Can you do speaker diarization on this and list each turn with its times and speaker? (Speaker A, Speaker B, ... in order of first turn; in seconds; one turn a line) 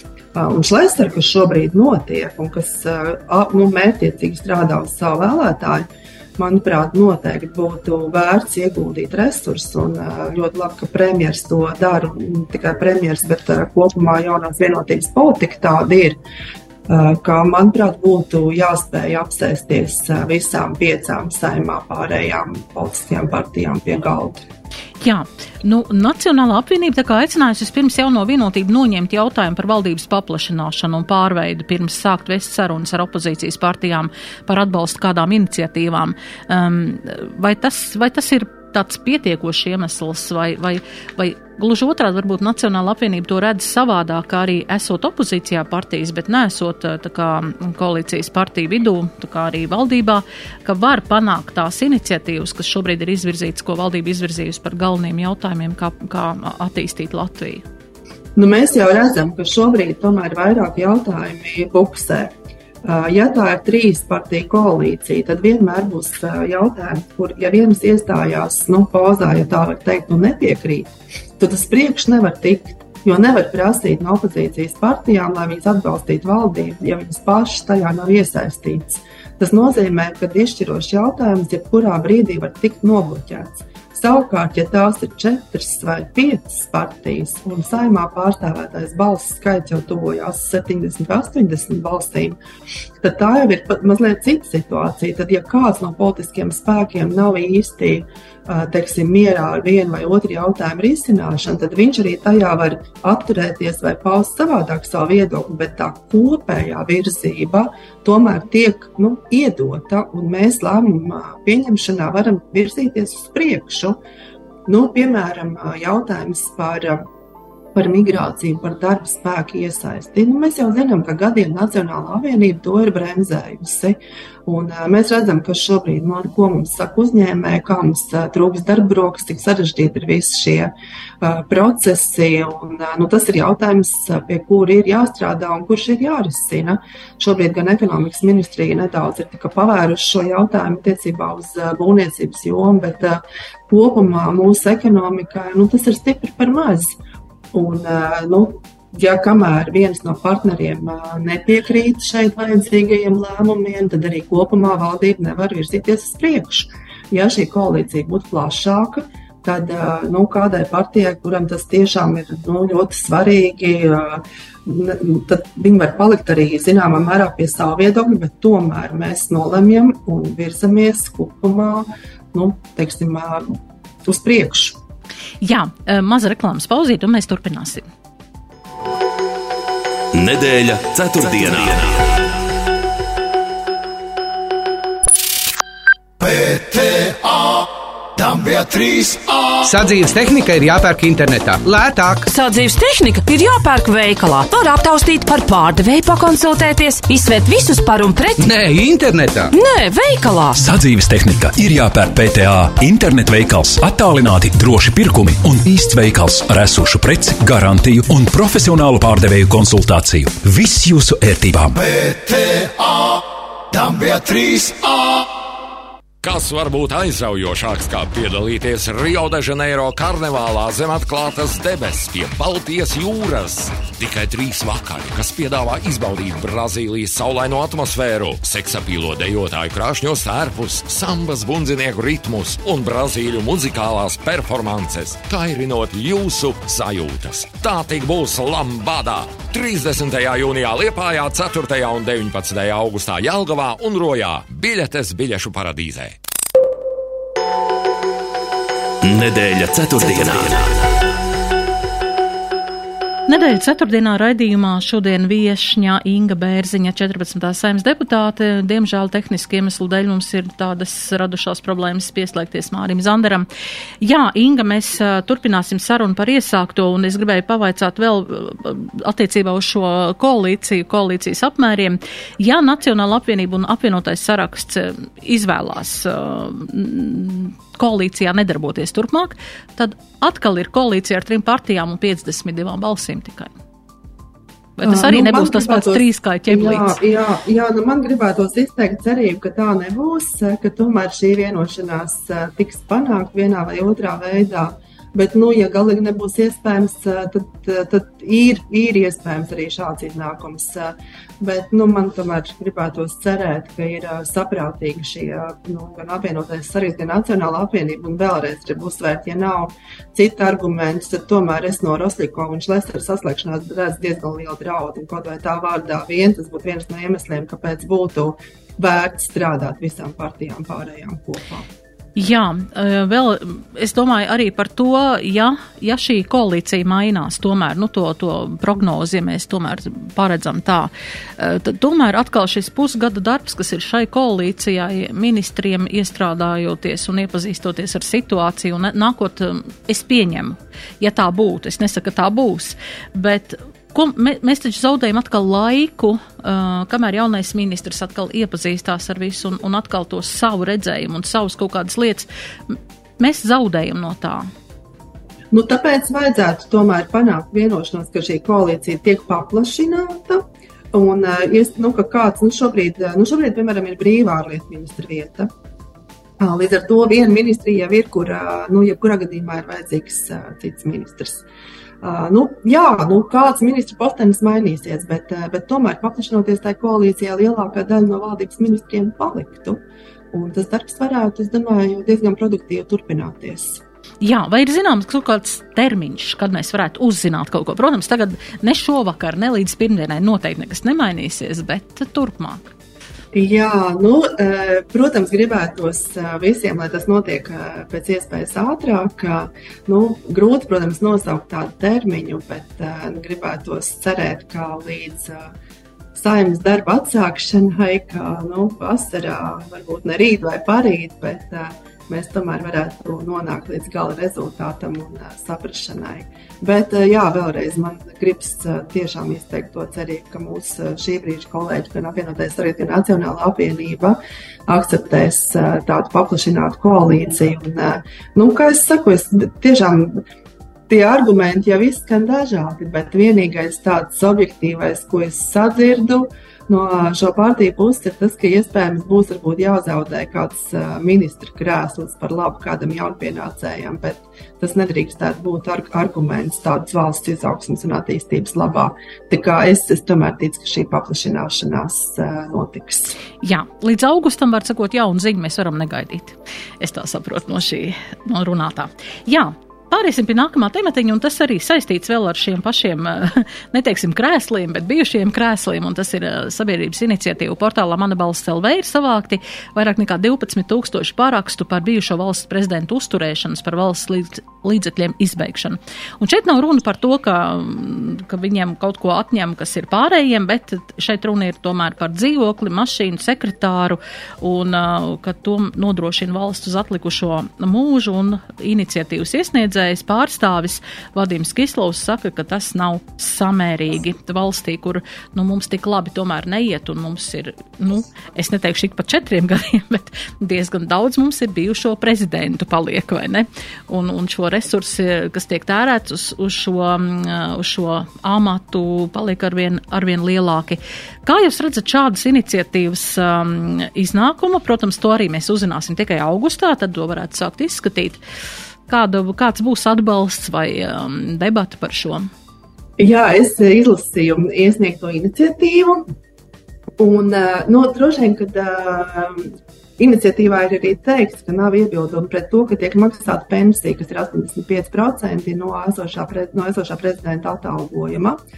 Speaker A: 0.3-16.2
Speaker A: 16.9-24.4
Speaker B: 25.0-57.6
Speaker A: 58.4-92.4
Speaker A: 93.0-114.0
Speaker A: 114.7-117.1
Speaker A: 117.7-147.0
Speaker A: 147.5-174.8
Speaker B: 175.4-177.9
Speaker C: 180.1-182.1
Speaker D: 186.4-187.2
Speaker D: 188.6-189.2
Speaker E: 189.6-192.3
Speaker F: 192.3-198.4
Speaker E: 198.4-199.5
Speaker F: 199.5-200.6
Speaker D: 200.6-213.1
Speaker D: 213.8-214.8
Speaker G: 216.2-246.2
Speaker C: 249.1-250.7
Speaker B: 253.3-263.5
Speaker B: 264.0-283.5
Speaker B: 284.8-287.0
Speaker A: 284.8-321.7
Speaker B: 322.2-354.5
Speaker A: 355.5-365.5
Speaker A: 366.4-371.4
Speaker A: 372.0-383.8
Speaker B: 384.2-392.7
Speaker A: 393.3-405.5
Speaker A: 406.1-430.2
Speaker A: 430.9-453.2
Speaker B: 453.4-518.2
Speaker B: 518.9-522.3
Speaker A: 523.0-526.1
Speaker A: 527.0-538.4